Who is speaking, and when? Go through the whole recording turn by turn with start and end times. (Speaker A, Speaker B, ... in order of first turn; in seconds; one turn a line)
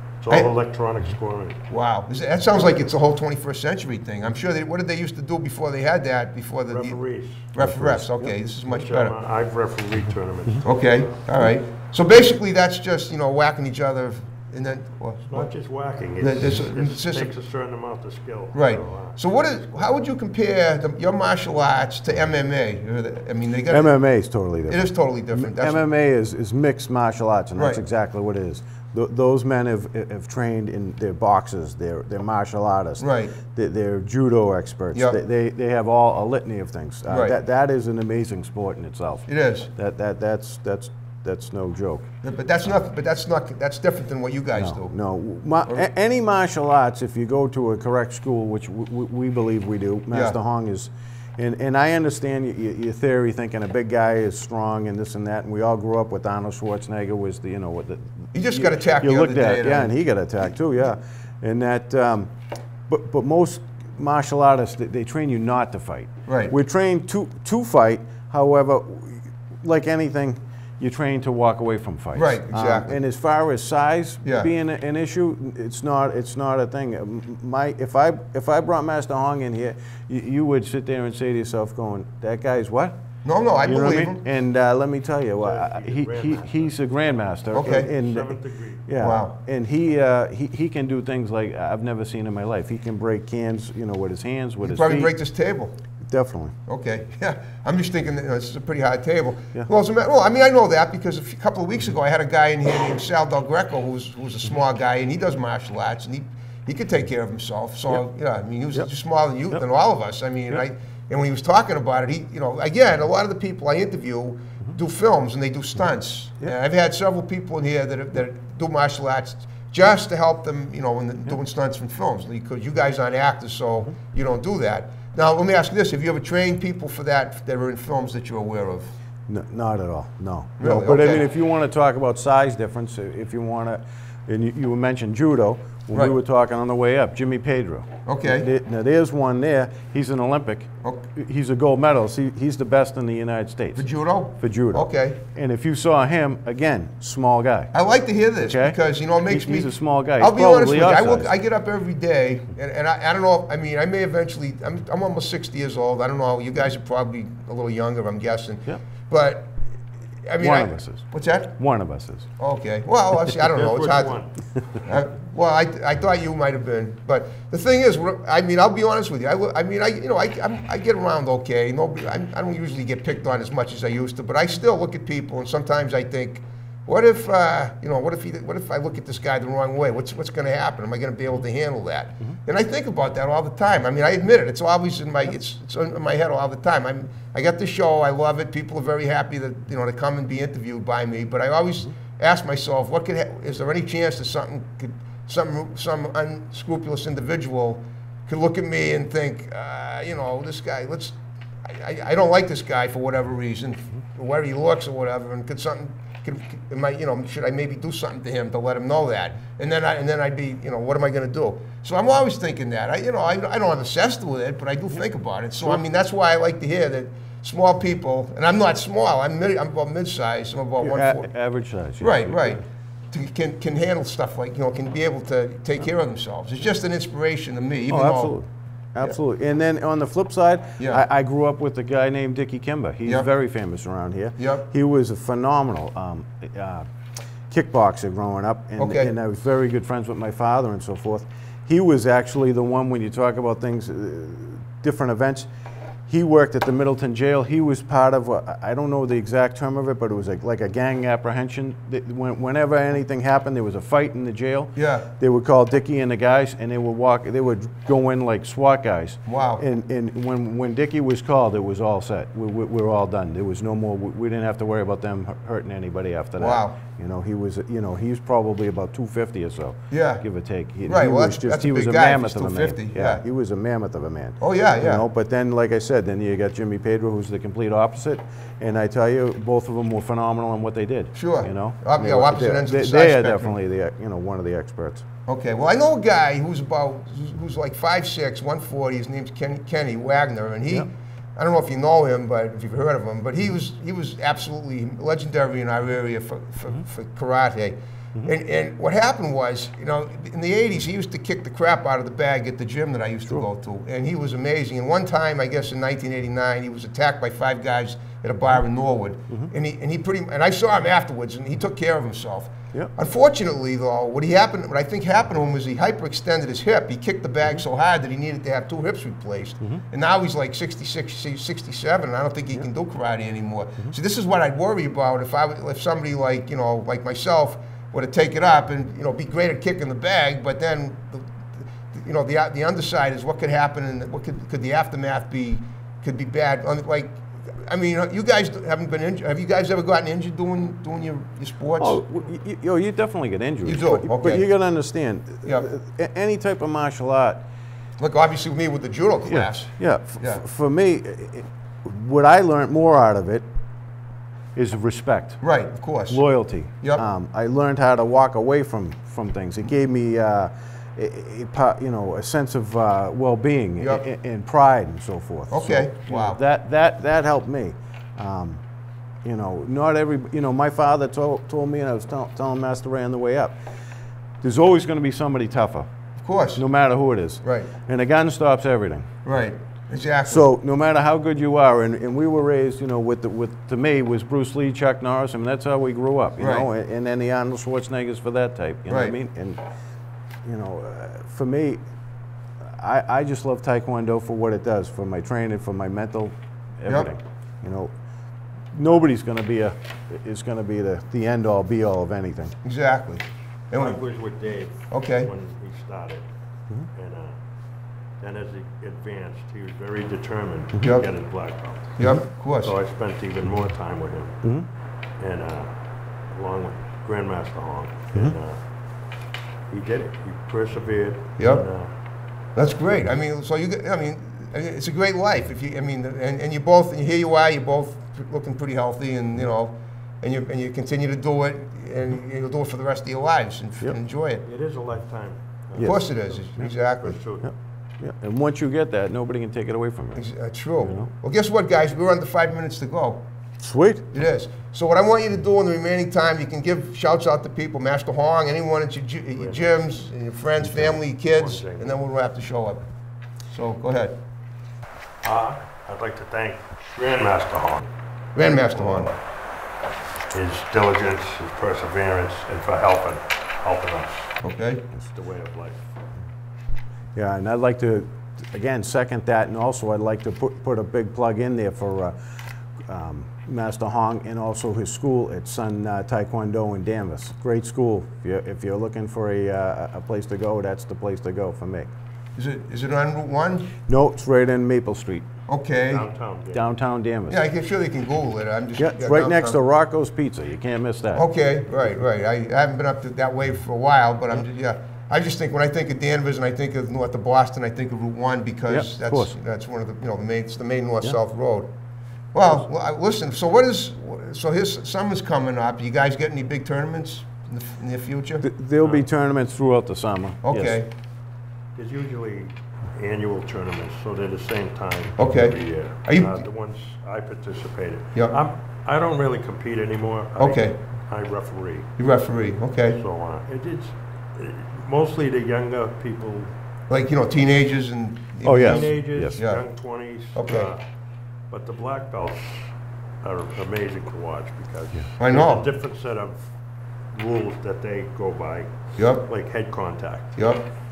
Speaker A: 0.2-1.6
Speaker B: 1.7-9.1
Speaker A: 6.7-7.5
Speaker C: 7.6-8.3
Speaker A: 8.7-11.2
Speaker B: 10.6-15.5
Speaker A: 15.3-19.2
Speaker B: 16.2-17.3
Speaker B: 18.5-24.0
Speaker C: 23.7-42.1
Speaker B: 24.7-25.8
Speaker B: 27.6-27.8
Speaker B: 33.0-33.4
Speaker B: 37.1-37.4
Speaker B: 39.3-39.7
Speaker B: 42.2-45.0
Speaker C: 44.5-62.3
Speaker B: 58.3-59.9
Speaker C: 62.9-83.0
Speaker B: 66.3-66.5
Speaker B: 72.2-73.0
Speaker B: 74.2-74.5
Speaker B: 83.2-84.2
Speaker C: 83.6-95.1
Speaker A: 85.4-86.8
Speaker B: 87.5-87.9
Speaker A: 87.8-88.8
Speaker B: 89.0-89.3
Speaker B: 94.6-95.8
Speaker C: 96.0-96.5
Speaker B: 96.7-128.9
Speaker C: 129.3-147.7
Speaker B: 130.6-131.3
Speaker B: 138.1-138.5
Speaker B: 143.8-145.2
Speaker B: 147.7-159.6
Speaker C: 148.4-151.3
Speaker B: 160.2-161.6
Speaker C: 160.4-162.3
Speaker B: 162.4-164.2
Speaker A: 163.5-164.3
Speaker B: 164.8-221.3
Speaker C: 220.8-222.6
Speaker B: 222.0-228.4
Speaker C: 227.9-236.9
Speaker B: 234.4-234.7
Speaker C: 237.5-245.5
Speaker B: 238.8-239.1
Speaker C: 246.1-285.1
Speaker B: 254.8-255.1
Speaker B: 259.3-259.6
Speaker B: 266.4-266.8
Speaker B: 269.9-270.2
Speaker B: 270.8-273.2
Speaker B: 274.4-275.1
Speaker B: 281.1-283.6
Speaker B: 285.3-342.0
Speaker C: 341.8-347.4
Speaker B: 343.6-344.4
Speaker B: 348.0-350.4
Speaker C: 349.3-353.5
Speaker C: 354.6-355.4
Speaker B: 355.4-356.2
Speaker C: 356.1-368.6
Speaker B: 363.8-364.0
Speaker B: 365.5-366.4
Speaker C: 369.2-373.8
Speaker C: 374.4-375.9
Speaker B: 376.2-376.6
Speaker C: 376.6-379.1
Speaker B: 377.4-377.7
Speaker B: 379.2-380.5
Speaker C: 380.3-389.6
Speaker B: 386.4-386.7
Speaker B: 388.9-389.1
Speaker C: 390.4-391.8
Speaker C: 392.6-397.9
Speaker C: 398.7-402.6
Speaker B: 402.6-404.0
Speaker A: 403.7-406.3
Speaker B: 404.9-405.3
Speaker A: 406.9-407.4
Speaker A: 408.2-414.4
Speaker B: 410.8-411.1
Speaker B: 412.0-412.7
Speaker C: 414.4-414.7
Speaker A: 415.2-418.6
Speaker A: 419.7-421.9
Speaker B: 421.4-421.6
Speaker B: 422.6-434.4
Speaker A: 434.4-437.5
Speaker C: 435.8-436.0
Speaker B: 435.8-437.2
Speaker C: 437.4-440.2
Speaker B: 440.1-443.3
Speaker C: 440.8-441.1
Speaker C: 443.6-444.1
Speaker B: 444.1-452.9
Speaker A: 449.4-449.7
Speaker C: 450.6-451.0
Speaker A: 451.1-452.0
Speaker B: 453.5-454.2
Speaker A: 455.2-457.9
Speaker B: 458.4-459.1
Speaker A: 458.8-459.1
Speaker A: 460.3-464.4
Speaker B: 464.4-464.8
Speaker A: 464.9-465.9
Speaker C: 467.1-481.9
Speaker B: 482.4-483.7
Speaker C: 483.9-485.3
Speaker B: 485.5-486.1
Speaker A: 485.8-486.6
Speaker C: 486.5-487.4
Speaker B: 487.3-489.6
Speaker C: 488.8-491.2
Speaker B: 491.1-501.7
Speaker C: 498.7-499.4
Speaker B: 502.3-508.4
Speaker C: 508.4-510.8
Speaker A: 508.8-509.1
Speaker B: 510.4-510.9
Speaker A: 511.8-521.9
Speaker B: 515.2-516.4
Speaker B: 520.4-520.8
Speaker B: 522.0-523.0
Speaker A: 522.9-526.5
Speaker B: 526.9-529.6
Speaker C: 528.4-529.4
Speaker A: 528.5-530.8
Speaker B: 530.4-530.7
Speaker A: 531.5-536.5
Speaker B: 535.2-535.7
Speaker A: 537.1-540.4
Speaker B: 539.0-539.2
Speaker B: 540.4-540.6